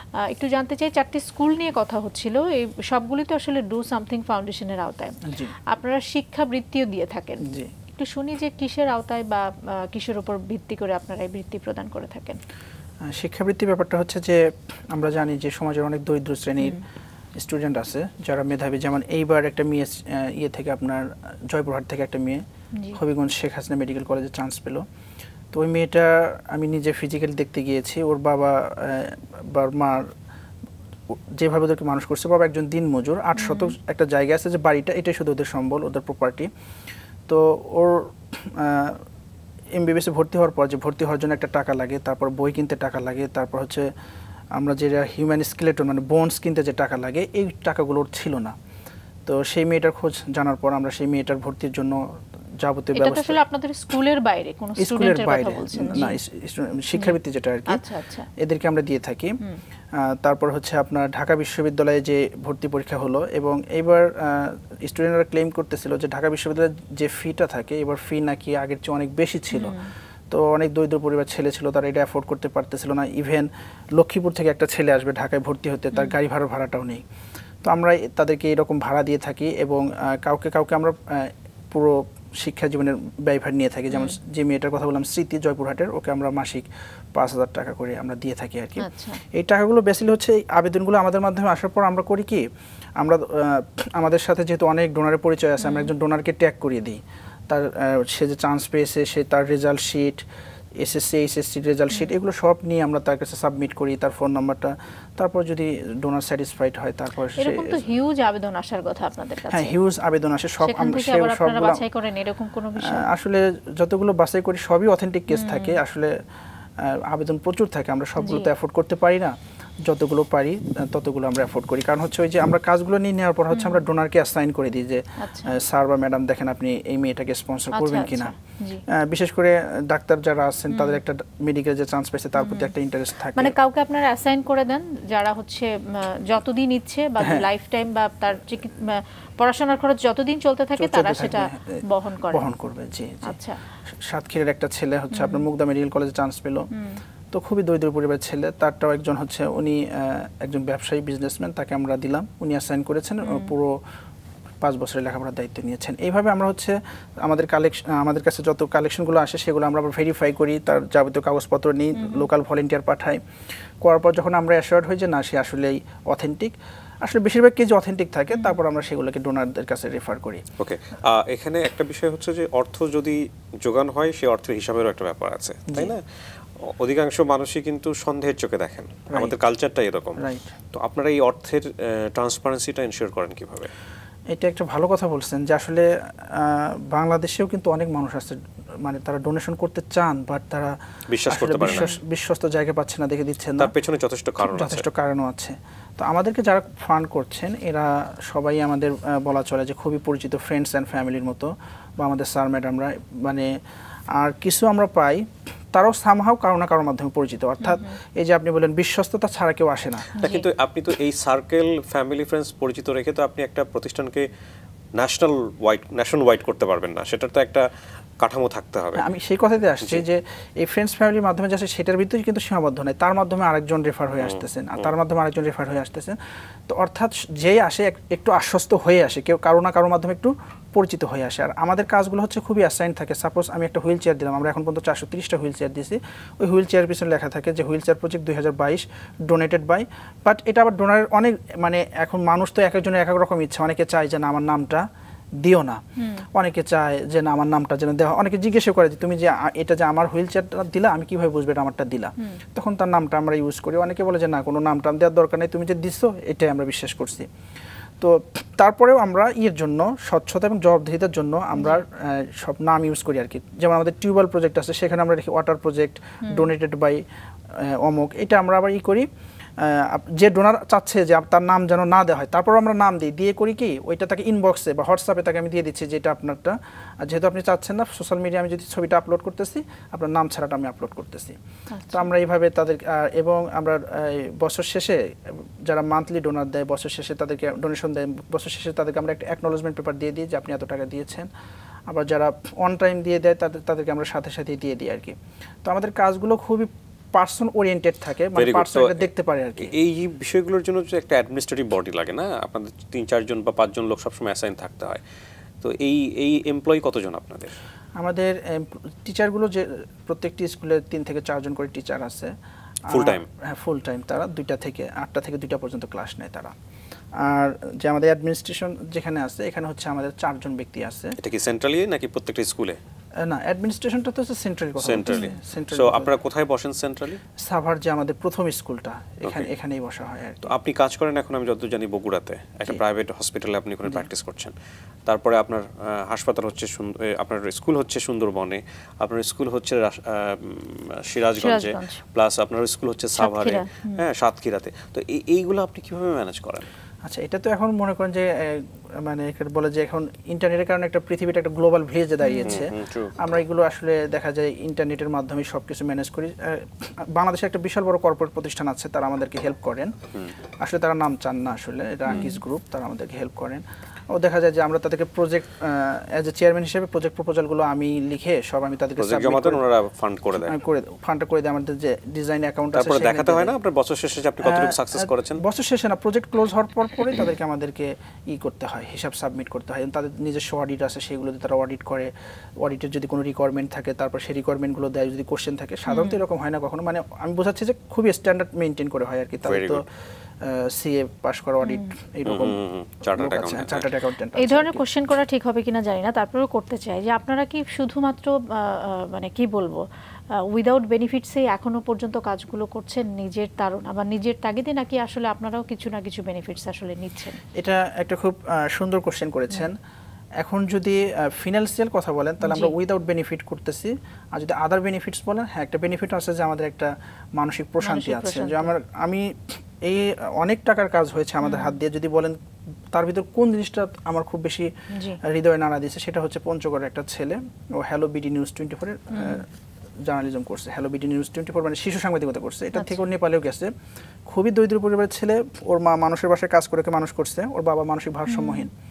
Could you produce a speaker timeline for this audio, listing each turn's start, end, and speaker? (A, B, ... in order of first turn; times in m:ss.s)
0:00.2-0:12.4 A
0:05.2-0:05.5 B
0:07.4-0:07.7 B
0:13.0-0:16.8 B
0:17.4-0:22.4 B
0:22.9-0:24.8 B
0:25.5-0:30.1 B
0:31.3-0:36.5 B
0:33.4-0:33.7 A
0:37.3-0:39.0 B
0:39.7-0:43.9 B
0:44.6-0:48.6 B
0:49.2-0:53.4 B
0:52.9-0:56.2 A
0:54.8-0:57.8 B
0:56.9-0:58.3 A
0:58.4-0:59.4 B
1:00.0-1:09.8 B
1:09.5-1:09.9 A
1:10.3-1:17.0 B
1:17.6-1:32.4 B
1:23.9-1:24.2 A
1:28.8-1:29.2 A
1:33.0-1:40.2 B
1:35.6-1:35.9 A
1:40.8-1:47.9 B
1:47.4-1:49.8 A
1:49.5-1:51.8 B
1:50.6-1:53.0 A
1:52.8-1:56.2 B
1:55.3-1:55.8 A
1:56.8-2:08.3 B
1:58.2-1:58.5 A
2:03.5-2:03.8 A
2:05.2-2:05.6 A
2:07.7-2:08.8 A
2:08.9-2:13.5 B
2:10.7-2:11.0 A
2:12.4-2:12.7 A
2:13.3-2:22.4 A
2:17.2-2:17.5 B
2:20.8-2:23.4 B
2:23.2-2:23.6 A
2:24.0-2:26.7 B
2:25.1-2:25.4 A
2:26.7-2:27.0 A
2:27.3-2:33.8 B
2:33.2-2:33.5 A
2:34.6-2:43.2 B
2:41.9-2:42.3 A
2:43.8-2:50.4 B
2:48.3-2:48.6 A
2:50.6-2:56.0 C
2:55.7-2:56.0 B
2:56.6-3:00.2 C
2:59.1-2:59.3 B
3:00.2-3:00.5 B
3:00.7-3:03.7 C
3:04.3-3:10.7 B
3:11.1-3:11.9 C
3:11.3-3:13.7 B
3:11.6-3:12.0 A
3:13.6-3:14.8 C
3:14.4-3:23.5 B
3:24.1-3:30.1 B
3:27.6-3:27.9 A
3:30.2-3:30.5 A
3:30.2-3:34.2 C
3:35.0-3:37.7 C
3:38.2-3:39.1 C
3:39.0-3:46.2 B
3:46.7-4:04.8 B
4:05.4-4:05.8 B
4:06.0-4:06.2 A
4:06.3-4:17.3 B
4:18.0-4:29.1 B
4:21.5-4:21.8 A
4:26.2-4:26.5 A
4:29.6-4:41.4 B
4:41.7-4:42.1 A
4:41.9-4:51.3 B
4:51.9-4:59.7 B
4:58.4-4:59.0 C
4:59.6-5:05.0 C
5:05.6-5:07.5 C
5:08.0-5:12.3 B
5:12.9-5:16.5 B
5:12.9-5:13.2 C
5:17.2-5:21.2 B
5:21.2-5:22.8 C
5:23.2-5:26.2 B
5:24.8-5:27.2 C
5:27.4-5:30.5 B
5:30.5-5:34.5 C
5:35.0-5:46.7 C
5:41.4-5:42.0 A
5:43.2-5:44.0 A
5:47.0-5:59.9 B
5:52.2-5:52.6 A
5:52.4-5:53.2 C
6:00.6-6:09.6 B
6:02.1-6:02.4 A
6:09.0-6:10.6 C
6:10.4-6:13.5 B
6:12.7-6:15.4 C
6:14.4-6:29.8 B
6:25.9-6:26.2 A
6:29.4-6:29.8 C
6:30.4-6:32.6 B
6:31.6-6:31.9 A
6:32.2-6:33.8 C
6:33.1-6:34.8 B
6:34.4-6:47.4 A
6:47.5-6:49.8 B
6:50.4-7:02.4 B
6:52.4-6:52.7 A
6:57.8-6:58.7 A
7:01.4-7:01.8 A
7:02.9-7:04.7 B
7:04.9-7:05.2 A
7:05.2-7:09.4 B
7:09.1-7:09.4 A
7:10.0-7:13.7 B
7:12.7-7:13.0 A
7:14.2-7:18.7 B
7:18.3-7:18.7 A